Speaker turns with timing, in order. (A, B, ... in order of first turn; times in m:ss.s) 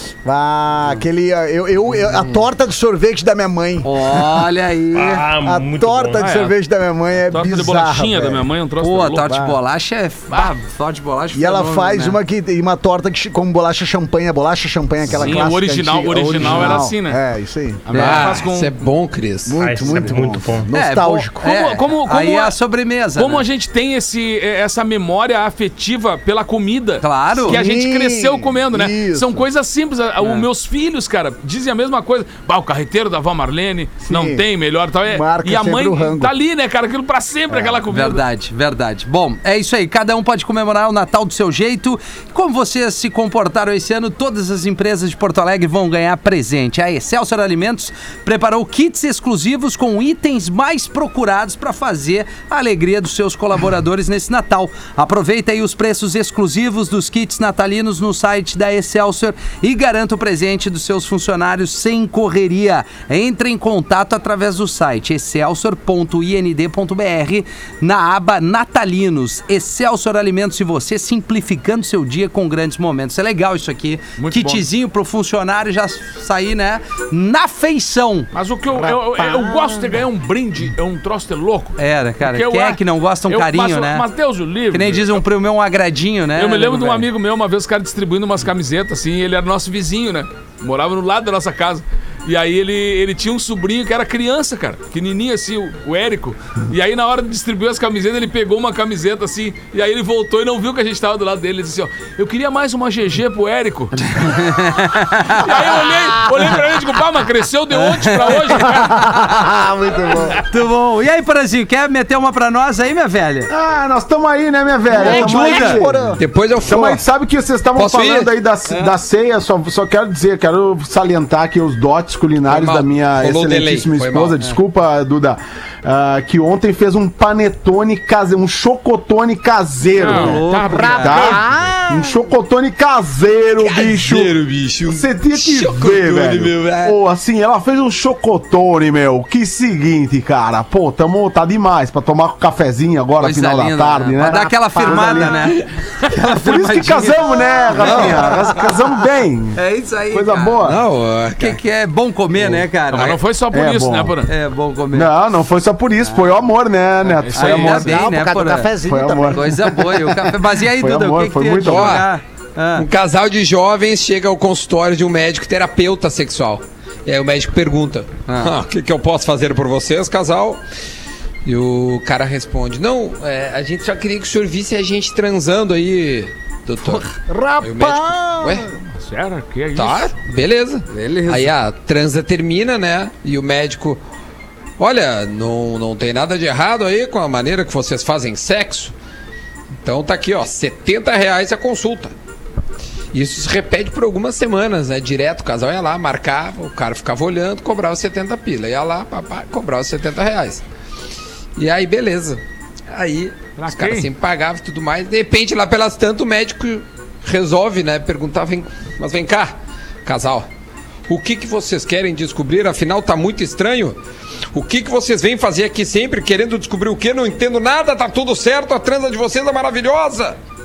0:00.2-0:03.9 A
0:03.8-0:05.2 B
0:04.9-0:06.3 C
0:05.4-0:08.4 A
0:06.2-0:06.5 D
0:07.3-0:09.3 D
0:08.8-0:12.2 B
0:09.3-0:09.5 A
0:11.3-0:17.8 A
0:15.1-0:17.2 D
0:17.9-0:18.7 D
0:17.9-0:20.0 E
0:17.9-0:18.2 B
0:19.5-0:21.4 A
0:19.6-0:20.7 C
0:20.7-0:23.4 B
0:21.4-0:22.5 D
0:23.1-0:38.2 D
0:27.0-0:27.6 B
0:27.4-0:29.4 A
0:30.2-0:30.5 B
0:34.0-0:34.4 A
0:35.0-0:36.3 A
0:37.5-0:37.8 A
0:37.9-1:18.3 B
1:14.2-1:14.6 D
1:18.3-1:25.2 D
1:18.8-1:19.9 A
1:21.8-1:24.0 B
1:24.7-1:27.0 B
1:26.4-1:44.3 D
1:44.1-1:45.8 B
1:45.4-1:49.2 D
1:47.7-1:49.2 B
1:48.9-1:50.4 A
1:50.5-1:53.5 B
1:53.5-1:56.1 F
1:54.9-1:55.8 B
1:54.9-1:56.2 A
1:56.2-1:57.0 E
1:56.6-2:10.4 F
1:57.7-1:58.3 E
2:02.5-2:04.4 E
2:10.0-2:11.2 D
2:10.0-2:11.4 B
2:10.7-2:12.2 A
2:11.0-2:25.5 F
2:13.6-2:17.0 E
2:23.2-2:28.4 B
2:26.2-2:29.6 F
2:27.4-2:28.4 A
2:29.5-2:30.6 B
2:30.1-2:30.8 F
2:30.6-2:31.6 E
2:31.4-2:33.2 B
2:32.9-2:34.3 D
2:33.5-2:34.2 F
2:34.3-2:35.1 B
2:34.9-2:37.9 F
2:37.1-2:37.9 D
2:37.3-2:38.7 B
2:37.7-2:39.9 A
2:38.8-2:39.7 F
2:39.3-2:42.8 B
2:40.5-2:42.0 F
2:41.6-2:42.1 E
2:42.7-2:50.6 E
2:48.2-2:48.5 B
2:51.4-2:58.7 E
2:56.9-2:58.7 A
2:59.0-3:00.2 D
2:59.7-3:04.0 E
3:00.9-3:01.5 B
3:04.8-3:08.9 E
3:09.8-3:12.1 E
3:13.1-3:20.6 E
3:21.6-3:22.4 E
3:22.9-3:30.5 E
3:23.6-3:24.1 D
3:31.1-3:34.0 E
3:34.5-3:40.4 E